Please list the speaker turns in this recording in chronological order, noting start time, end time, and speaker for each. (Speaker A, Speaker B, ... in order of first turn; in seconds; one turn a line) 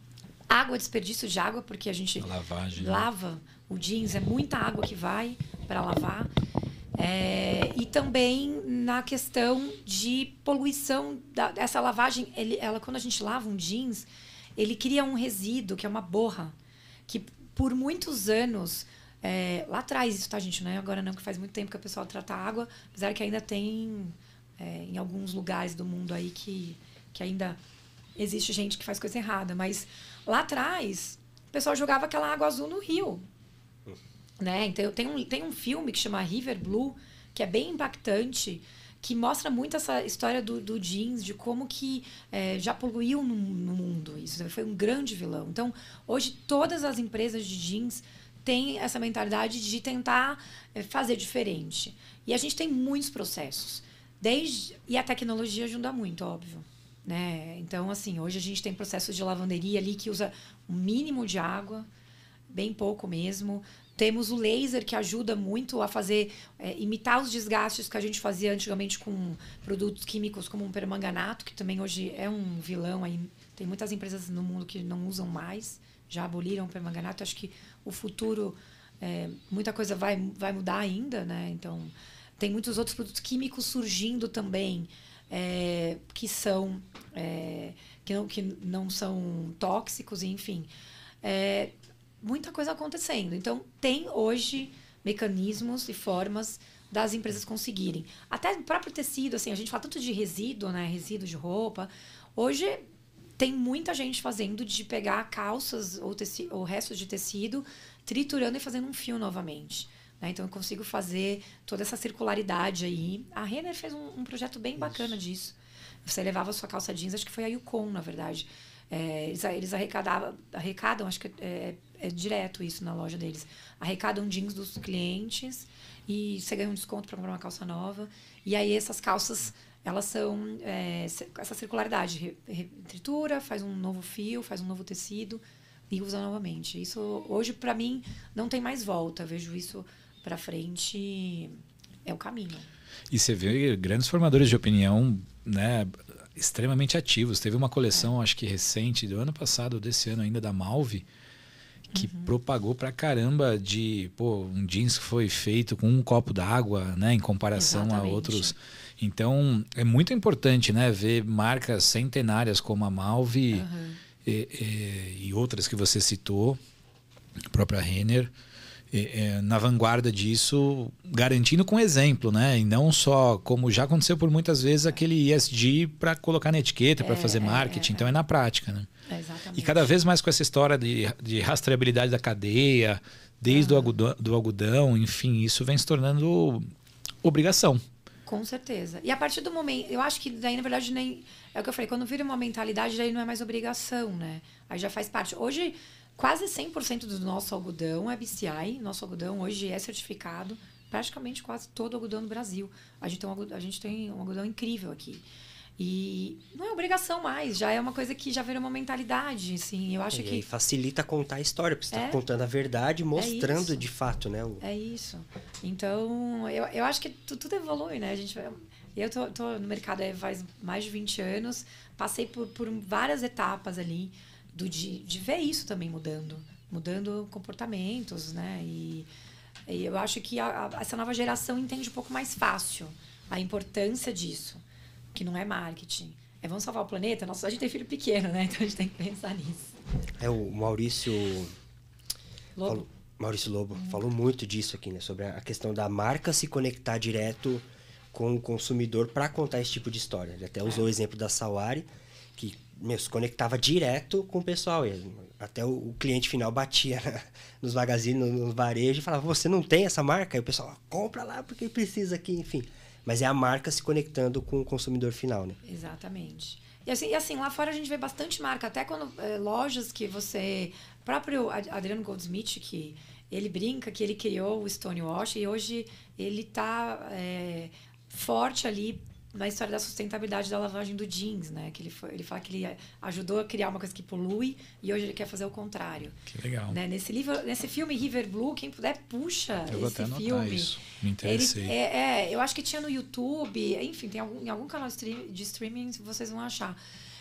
Speaker A: 0.5-6.3
Speaker B: 2.2-3.1
Speaker A: 7.0-16.6
Speaker A: 17.1-27.6
Speaker A: 28.2-33.2
Speaker A: 34.4-61.9
Speaker A: 62.5-90.7
Speaker A: 91.2-102.8
Speaker A: 103.4-142.7
Speaker B: 143.1-151.1
Speaker A: 151.9-152.3
Speaker B: 151.9-163.7
Speaker A: 157.6-158.5
Speaker A: 163.5-164.0
Speaker B: 164.2-166.6
Speaker B: 167.5-168.3
Speaker B: 168.9-178.9
Speaker A: 177.0-178.2
Speaker A: 179.1-179.9
Speaker B: 179.6-186.7
Speaker A: 183.5-183.9
Speaker B: 187.2-187.8
Speaker A: 188.3-205.3
Speaker A: 205.8-210.4
Speaker C: 210.1-214.6
Speaker A: 211.9-212.2
Speaker A: 213.2-213.8
Speaker A: 214.6-229.1
Speaker A: 229.7-234.6
Speaker A: 235.1-239.8
Speaker C: 240.2-241.5
Speaker A: 242.6-242.9
Speaker C: 242.6-265.6
Speaker A: 265.6-286.2
Speaker B: 286.3-286.8
Speaker A: 286.7-296.8
Speaker B: 289.7-291.7